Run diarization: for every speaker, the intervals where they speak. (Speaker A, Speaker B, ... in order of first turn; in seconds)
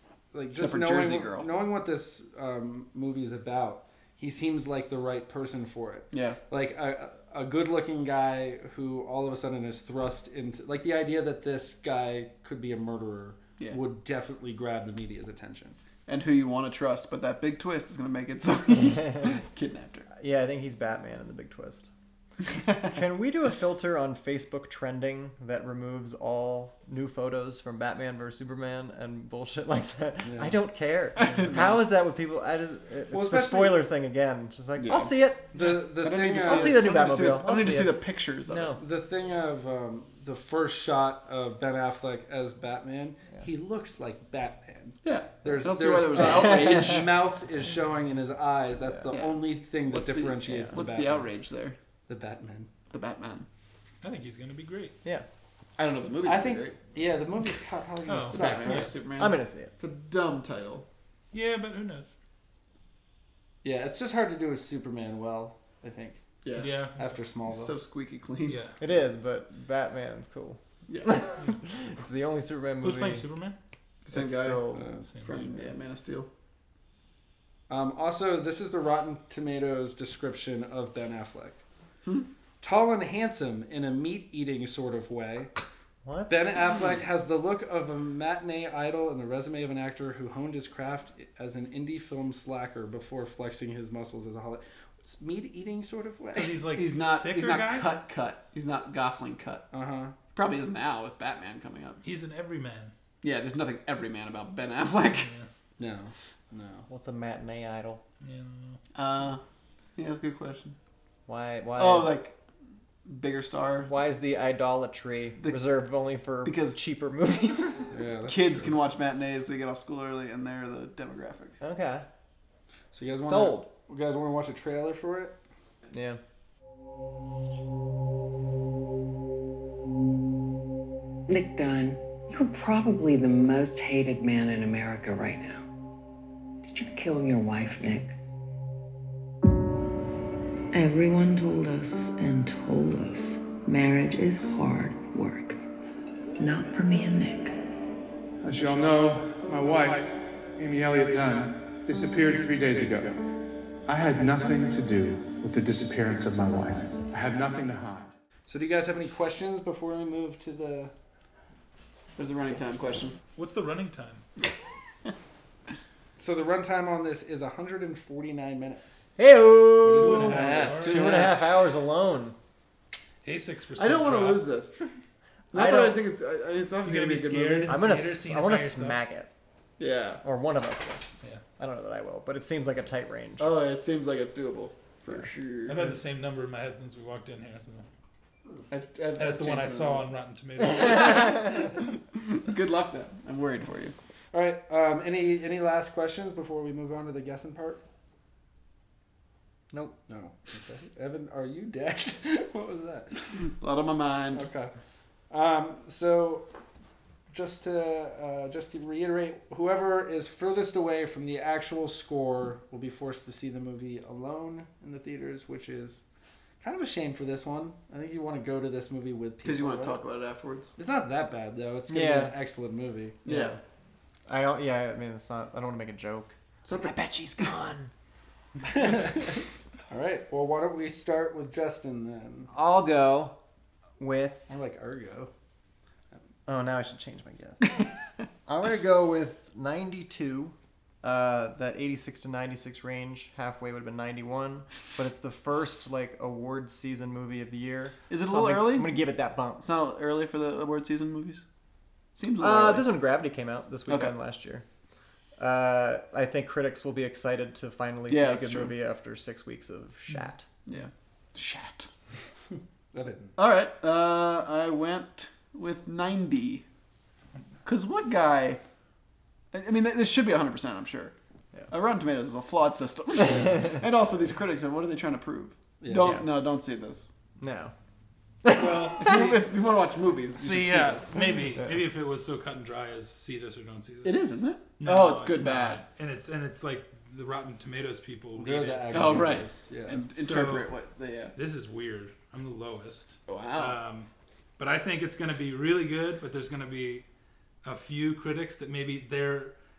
Speaker A: 0.3-15.8, 30.2-30.6, 33.1-33.8, 35.5-37.0, 38.8-51.3, 52.1-52.7, 56.2-58.9, 63.6-66.2, 67.0-67.7, 74.7-75.1, 77.7-81.6, 82.6-85.5, 86.3-96.6, 99.7-100.1, 105.8-106.8, 117.9-118.8, 122.9-125.3, 158.5-160.9, 166.2-169.0, 169.8-171.4, 194.3-197.8, 200.1-203.3, 204.3-204.7, 205.3-206.5, 207.3-216.0, 216.6-220.0, 220.8-223.2, 228.7-232.5, 234.5-235.3, 262.9-263.4, 275.8-276.2, 288.4-290.0
Speaker B: 0.5-1.5, 6.1-6.4, 16.1-20.1, 22.5-23.0, 31.2-31.8, 34.8-38.8, 45.0-47.1, 49.1-51.8, 52.9-53.5, 55.8-56.8, 58.3-60.8, 66.4-66.7, 67.5-68.6, 70.9-71.2, 74.0-74.6, 75.2-76.3, 96.7-99.7, 100.3-102.0, 103.2-105.3, 108.9-109.4, 110.0-110.8, 111.8-112.3, 113.0-113.9, 115.4-115.7, 116.4-116.8, 118.3-121.6, 162.2-163.2, 170.4-171.3, 173.8-174.8, 175.5-177.8, 179.8-180.2, 183.4-185.9, 188.7-190.1, 190.9-191.4, 192.1-193.9, 203.4-204.5, 219.4-220.7, 223.2-223.6, 248.1-249.0, 249.6-251.4, 252.1-252.9, 253.9-254.1, 258.1-258.7, 260.6-261.9, 263.4-266.6, 267.6-268.6, 269.5-271.1, 271.7-277.1, 279.0-281.2, 284.0-285.8, 288.9-291.3, 293.3-293.8
Speaker C: 18.7-19.4, 20.1-21.9, 22.9-35.6, 36.3-38.8, 46.2-47.0, 50.5-50.7, 58.3-59.7, 68.8-73.3, 74.1-74.9, 86.0-86.6, 106.9-108.0, 111.3-112.2, 113.8-117.9, 121.6-122.0, 123.2-123.7, 125.9-126.2, 169.2-172.3, 175.5-176.0, 177.6-179.3, 180.2-181.1, 181.6-183.5, 199.7-200.0, 221.9-222.3, 223.2-223.6, 224.3-227.9, 232.5-233.3, 234.0-234.5, 236.5-237.8, 238.4-249.6, 252.4-254.6, 255.4-260.5, 273.4-273.7, 276.0-276.2, 277.4-277.7, 278.4-279.1, 281.5-281.8
Speaker D: 54.0-54.9, 58.0-58.9, 61.3-62.1, 66.5-67.0, 68.4-68.8, 72.8-73.5, 75.0-75.4, 96.3-98.0, 102.0-102.9, 105.2-105.5, 108.2-108.8, 163.3-164.2, 169.9-171.1, 173.2-174.5, 176.8-179.0, 185.7-187.9, 189.2-191.8, 278.5-279.5, 280.4-289.4, 290.1-290.7, 291.4-297.1, 297.6-299.5
Speaker E: 131.3-135.6, 136.7-138.1
Speaker F: 140.7-145.6, 146.4-147.6
Speaker G: 148.4-153.3, 153.8-158.1